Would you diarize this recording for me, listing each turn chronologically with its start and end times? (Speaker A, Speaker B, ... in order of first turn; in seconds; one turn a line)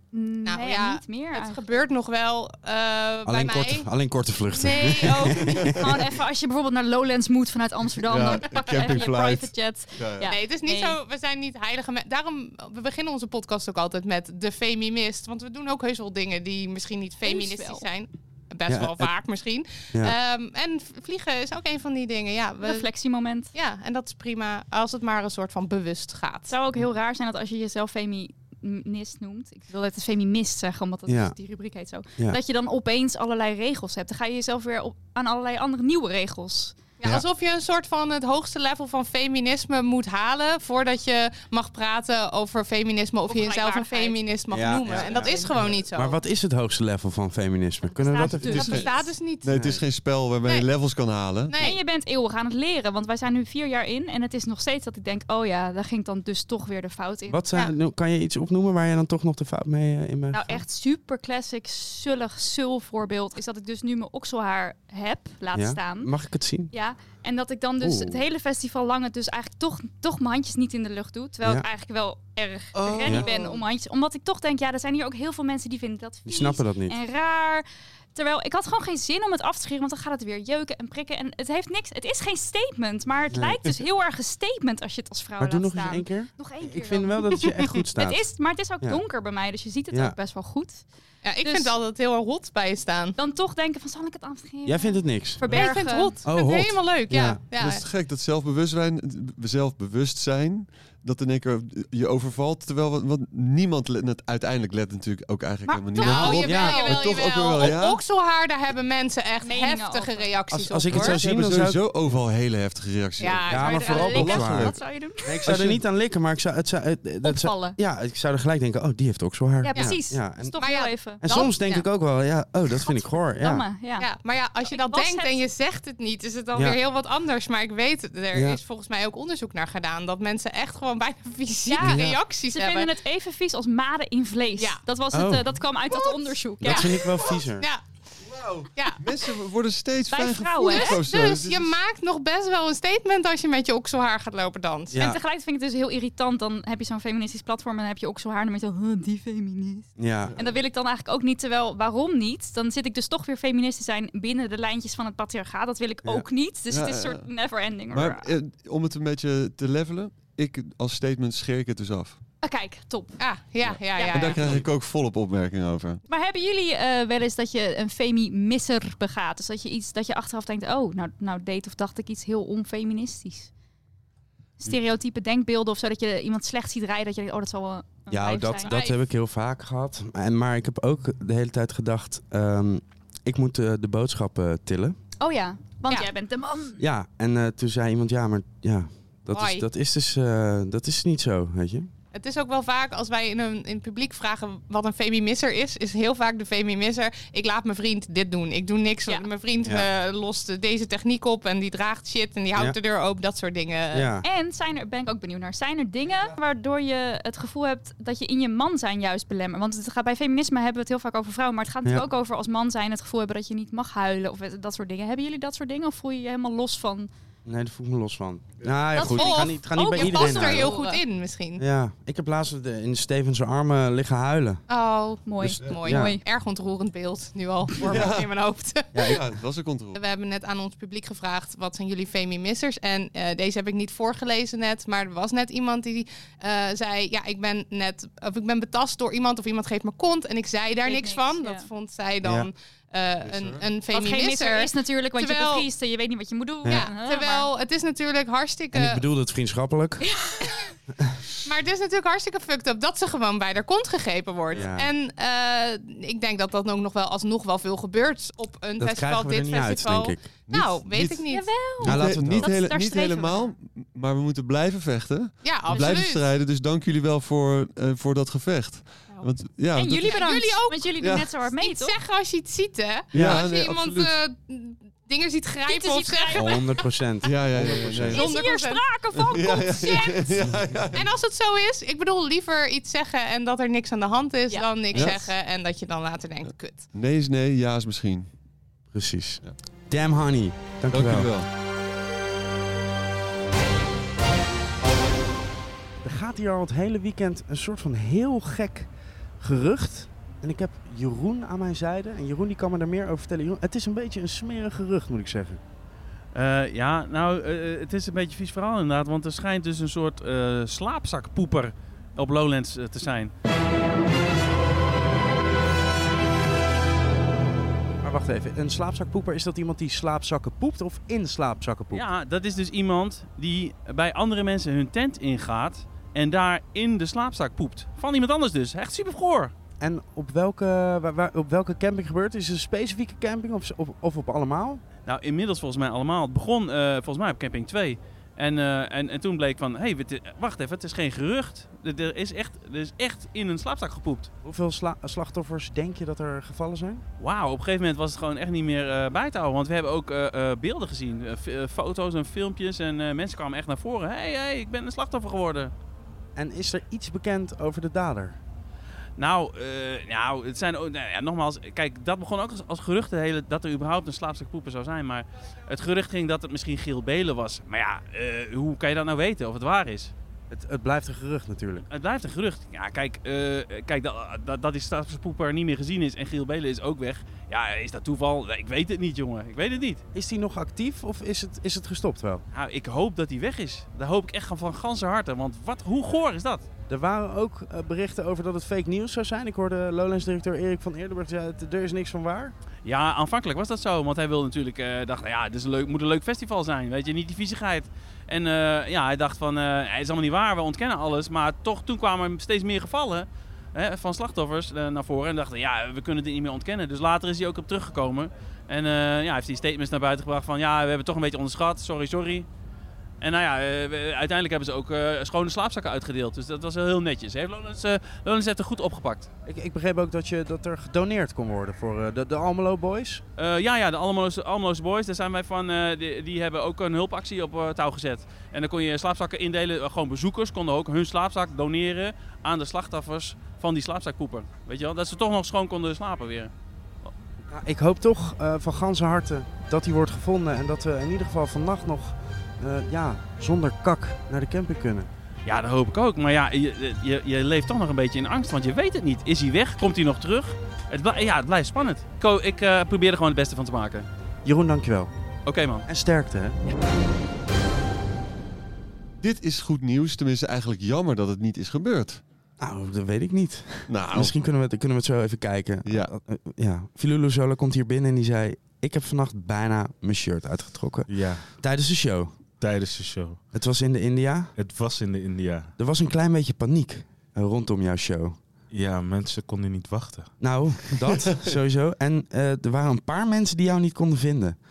Speaker A: 0.1-1.7
Speaker B: 0.5-3.9
Speaker C: 3.3-6.0
Speaker B: 4.5-5.6
Speaker A: 5.8-11.0
Speaker D: 8.1-9.5
Speaker B: 8.4-8.7
Speaker D: 10.0-10.3
Speaker B: 10.2-22.9
Speaker A: 17.2-17.9
Speaker C: 18.7-19.1
Speaker A: 22.6-23.5
Speaker B: 23.5-26.6
Speaker A: 26.5-36.9
Speaker C: 31.1-31.4
Speaker B: 37.0-46.2
Speaker A: 43.3-44.2
Speaker C: 44.5-45.3
Speaker A: 44.9-45.5
Speaker C: 45.9-48.8
Speaker A: 47.9-49.1
Speaker D: 48.3-48.9
Speaker B: 48.5-49.5
Speaker D: 49.4-51.6
Speaker C: 49.6-49.8
Speaker B: 51.5-51.8
Speaker A: 51.6-57.5
Speaker C: 57.3-60.6
Speaker A: 60.3-66.1
Speaker C: 65.5-66.7
Speaker A: 66.7-90.9
Speaker C: 67.8-68.2
Speaker D: 72.8-73.4
Speaker C: 76.3-77.0
Speaker C: 83.3-83.6
Speaker C: 85.4-89.0
Speaker C: 89.9-90.2
Speaker B: 91.2-93.1
Speaker A: 91.4-91.8
Speaker A: 93.2-96.2
Speaker C: 94.7-95.7
Speaker B: 95.5-97.8
Speaker C: 96.2-97.4
Speaker D: 97.6-108.0
Speaker A: 105.7-107.1
Speaker B: 105.9-111.2
Speaker C: 106.0-106.9
Speaker A: 109.4-110.4
Speaker C: 110.5-111.8
Speaker D: 110.9-114.8
Speaker B: 113.2-114.2
Speaker C: 113.5-120.6
Speaker A: 113.5-115.5
Speaker D: 115.5-115.8
Speaker A: 117.2-117.8
Speaker A: 119.6-121.5
Speaker B: 119.7-120.0
Speaker B: 120.6-121.8
Speaker C: 121.2-123.7
Speaker A: 122.9-124.1
Speaker B: 124.0-132.9
Speaker A: 124.7-125.4
Speaker C: 128.3-128.6
Speaker A: 131.7-137.1
Speaker C: 131.8-132.2
Speaker C: 135.1-135.6
Speaker B: 136.0-137.8
Speaker C: 136.6-137.7
Speaker D: 138.4-141.8
Speaker B: 138.8-139.1
Speaker A: 140.1-141.0
Speaker B: 140.6-145.1
Speaker C: 144.9-145.2
Speaker A: 145.0-158.3
Speaker C: 150.0-150.3
Speaker D: 156.7-157.3
Speaker D: 157.9-162.2
Speaker A: 162.4-163.2
Speaker B: 163.2-164.6
Speaker D: 163.7-166.0
Speaker A: 163.9-164.4
Speaker A: 166.1-173.5
Speaker A: 174.6-178.9
Speaker C: 178.1-185.0
Speaker A: 185.2-186.8
Speaker C: 186.8-191.9
Speaker B: 189.3-189.6
Speaker B: 192.1-204.1
Speaker C: 203.9-204.2
Speaker A: 204.2-217.1
Speaker C: 217.4-220.8
Speaker A: 218.9-221.0
Speaker B: 219.0-221.6
Speaker C: 221.6-224.6
Speaker B: 224.7-229.1
Speaker A: 225.3-226.2
Speaker C: 225.5-226.2
Speaker D: 227.8-228.3
Speaker C: 228.9-229.2
Speaker D: 229.1-230.0
Speaker B: 229.9-245.7
Speaker A: 240.8-241.7
Speaker C: 242.2-242.5
Speaker D: 243.2-243.7
Speaker A: 243.9-247.5
Speaker B: 246.7-249.0
Speaker C: 248.7-250.1
Speaker A: 250.0-250.6
Speaker B: 251.4-261.6
Speaker C: 254.5-254.9
Speaker C: 258.8-260.3
Speaker D: 260.5-261.3
Speaker A: 261.3-263.5
Speaker D: 261.8-270.2
Speaker C: 261.8-262.5
Speaker B: 265.4-266.3
Speaker A: 265.7-266.0
Speaker A: 269.8-272.0
Speaker B: 269.9-271.0
Speaker D: 271.0-271.3
Speaker B: 271.5-276.7
Speaker C: 273.1-273.4
Speaker D: 273.1-274.2
Speaker A: 275.7-276.8
Speaker C: 276.4-278.1
Speaker D: 277.2-278.3
Speaker B: 278.1-278.9
Speaker A: 278.1-280.4
Speaker D: 279.1-281.1
Speaker B: 280.9-286.9
Speaker A: 284.5-284.8
Speaker D: 286.5-288.3
Speaker C: 288.9-291.3
Speaker D: 290.9-291.5
Speaker C: 296.0-305.6
Speaker E: 306.3-313.3
Speaker C: 318.0-322.1
Speaker E: 321.9-329.5
Speaker C: 329.8-334.8
Speaker E: 335.1-344.3
Speaker C: 344.4-347.0
Speaker E: 347.2-355.7
Speaker C: 356.4-358.4
Speaker E: 359.2-370.1
Speaker C: 370.5-371.9
Speaker E: 371.9-380.0
Speaker C: 380.1-382.4
Speaker E: 382.5-386.7
Speaker C: 386.9-392.5
Speaker E: 392.9-412.5
Speaker E: 413.2-419.3
Speaker C: 419.5-423.2
Speaker E: 423.4-436.5
Speaker C: 437.5-445.1
Speaker E: 445.4-454.1
Speaker C: 454.4-455.1
Speaker E: 455.5-455.9
Speaker C: 455.9-456.6
Speaker D: 459.2-462.2
Speaker C: 462.6-472.4
Speaker D: 463.9-464.4
Speaker D: 465.9-466.1
Speaker F: 471.1-471.5
Speaker F: 472.6-473.4
Speaker C: 473.5-474.5
Speaker F: 474.6-475.7
Speaker C: 475.8-478.4
Speaker F: 478.7-480.3
Speaker C: 480.4-484.6